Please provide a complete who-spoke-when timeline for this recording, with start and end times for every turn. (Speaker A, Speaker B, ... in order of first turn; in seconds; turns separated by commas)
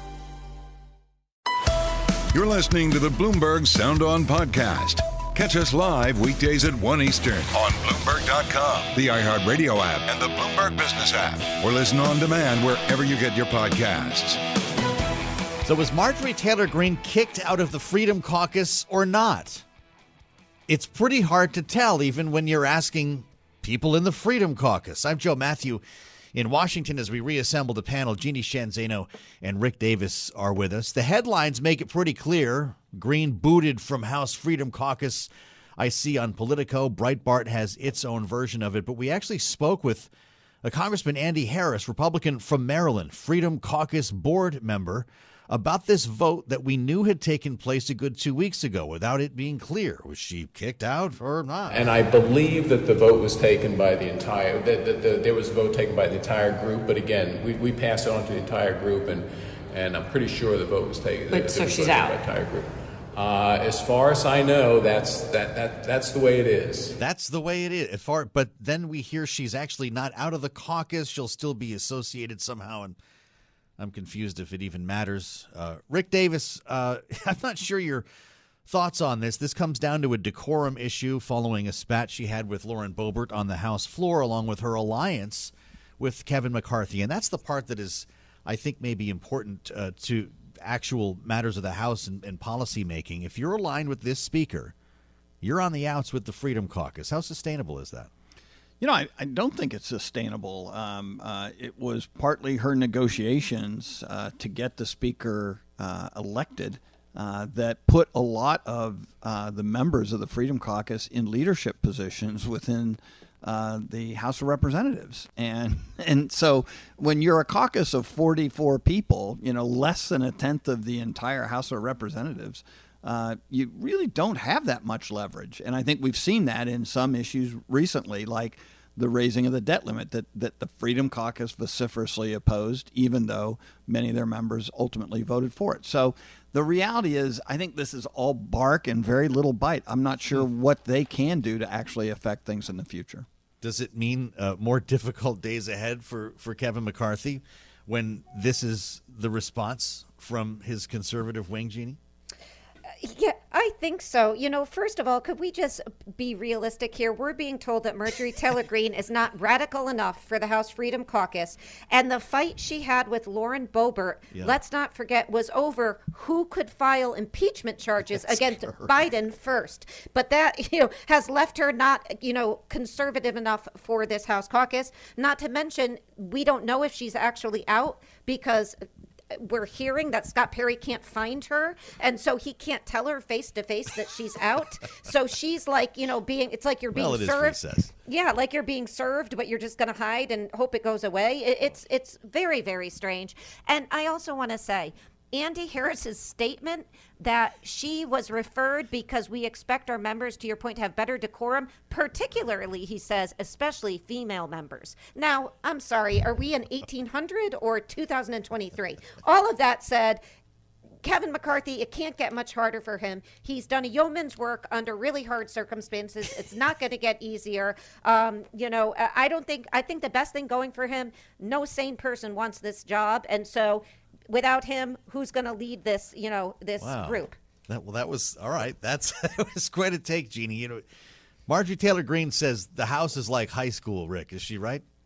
Speaker A: 2.3-14.4, Speaker B: 15.6-19.6, Speaker B: 20.7-25.8, Speaker B: 26.3-40.1, Speaker B: 40.6-51.9, Speaker C: 51.7-67.0, Speaker B: 67.0-73.0, Speaker B: 73.8-78.1, Speaker B: 78.7-94.7, Speaker B: 95.4-98.1, Speaker D: 98.8-143.3, Speaker B: 143.6-152.0, Speaker E: 153.0-178.8, Speaker B: 168.1-168.9, Speaker E: 179.3-210.2, Speaker B: 186.9-187.9, Speaker E: 211.0-227.4, Speaker B: 226.8-230.8, Speaker B: 231.5-234.8